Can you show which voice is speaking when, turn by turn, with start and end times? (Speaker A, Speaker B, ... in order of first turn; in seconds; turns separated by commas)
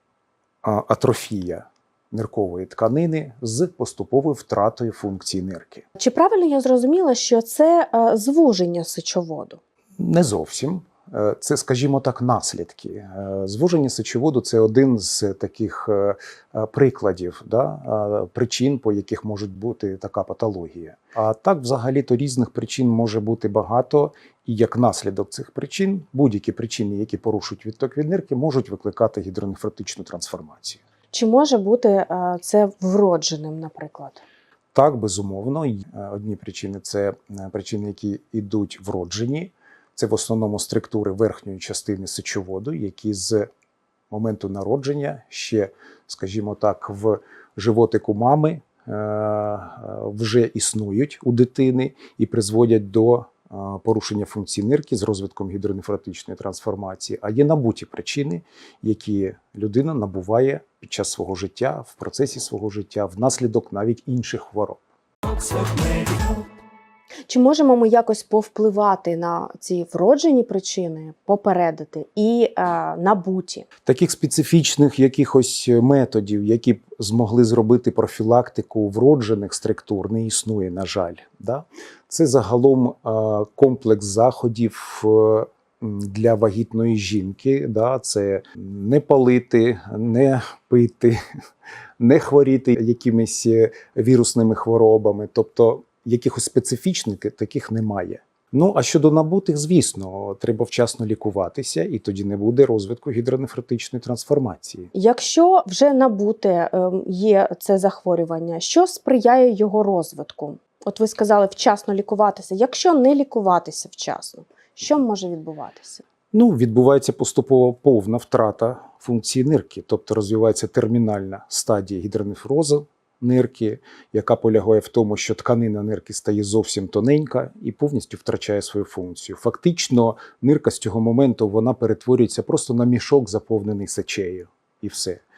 Speaker A: 0.6-5.8, Speaker B: 6.0-9.6, Speaker A: 10.0-30.8, Speaker B: 31.1-34.2, Speaker A: 34.7-43.5, Speaker A: 44.1-64.8, Speaker B: 67.3-73.7, Speaker A: 73.9-91.2, Speaker A: 92.0-104.9, Speaker B: 104.9-116.0, Speaker A: 116.3-135.2